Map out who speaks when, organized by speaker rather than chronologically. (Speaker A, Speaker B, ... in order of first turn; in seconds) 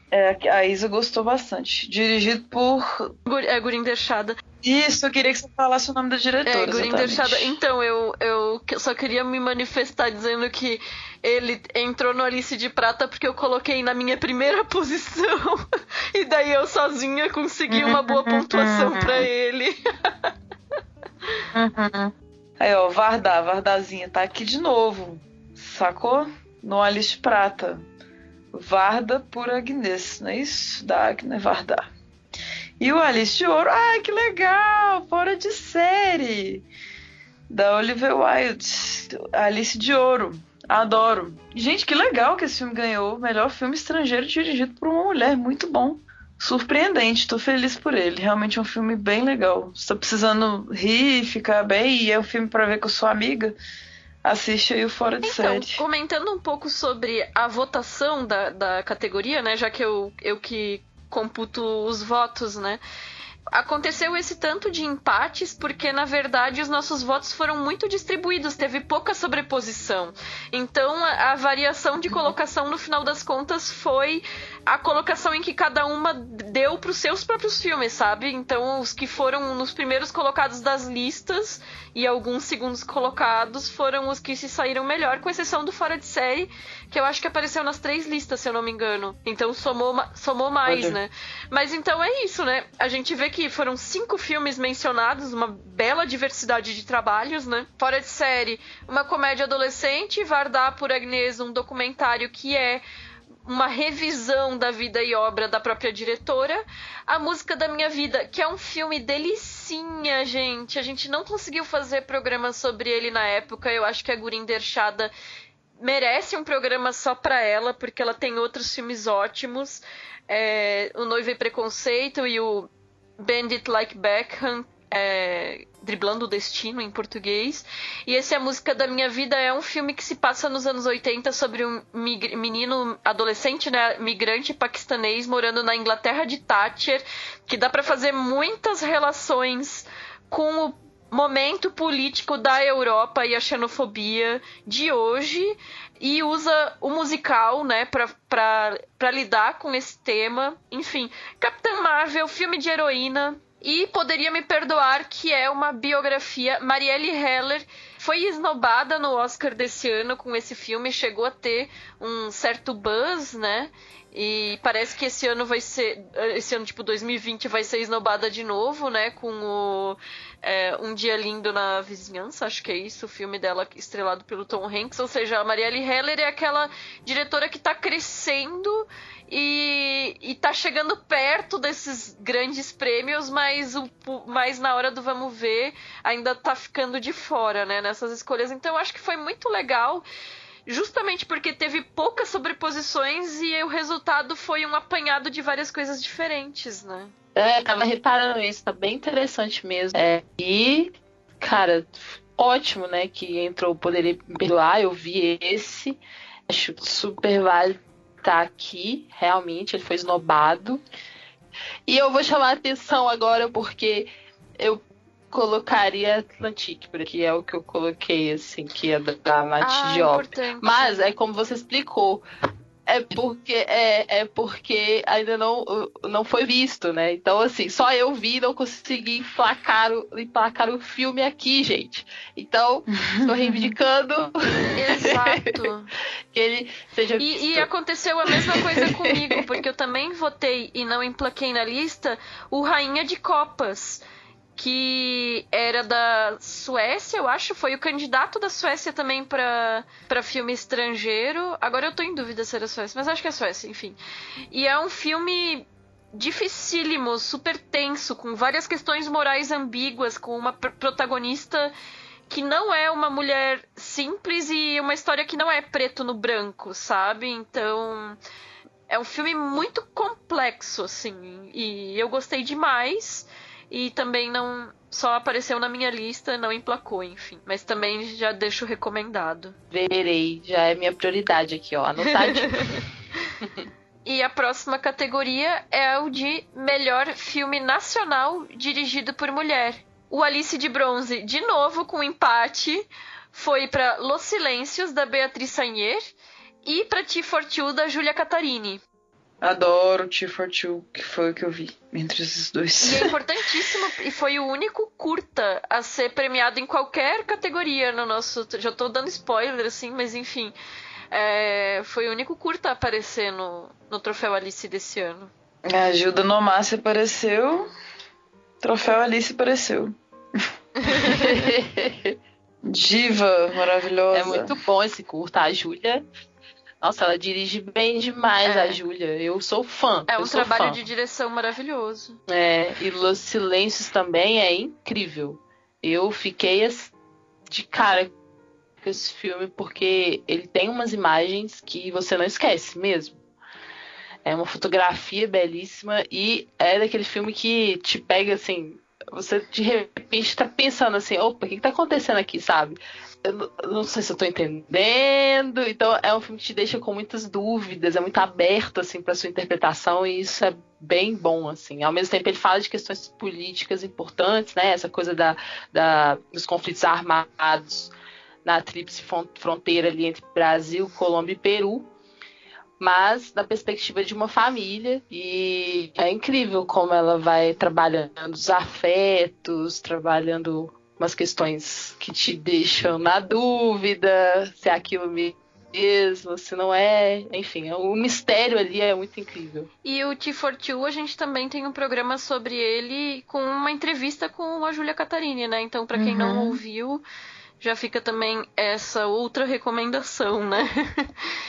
Speaker A: 0.1-3.1, 4.6-7.6, 17.7-19.3, 21.6-27.9, 28.5-31.9, 32.8-36.6, 37.5-53.6, 54.2-55.8, 90.7-91.0, 232.9-233.8, 299.4-303.1, 315.7-317.7, 318.6-319.9, 322.6-324.5, 395.9-396.6
Speaker B: 3.3-4.4, 6.5-20.3, 55.2-62.8, 63.5-102.8, 103.5-115.1, 115.8-190.1, 190.7-197.1, 219.6-221.1, 234.8-235.9, 237.2-244.0, 244.6-254.0, 254.5-261.7, 262.3-268.2, 268.9-279.6, 282.0-282.8, 284.1-296.1, 296.6-298.8, 302.8-310.5, 311.1-315.3, 320.9-321.2, 328.5-328.8, 330.1-332.2, 389.8-397.0, 397.6-401.1
Speaker C: 197.4-210.8, 211.9-222.2, 222.9-235.6, 236.3-237.7, 238.3-239.4, 279.7-282.8, 283.4-283.7, 321.0-322.2, 324.1-326.0, 326.8-330.8, 332.3-336.9, 337.5-338.1, 338.8-343.2, 344.2-367.9, 368.4-371.9, 372.8-389.7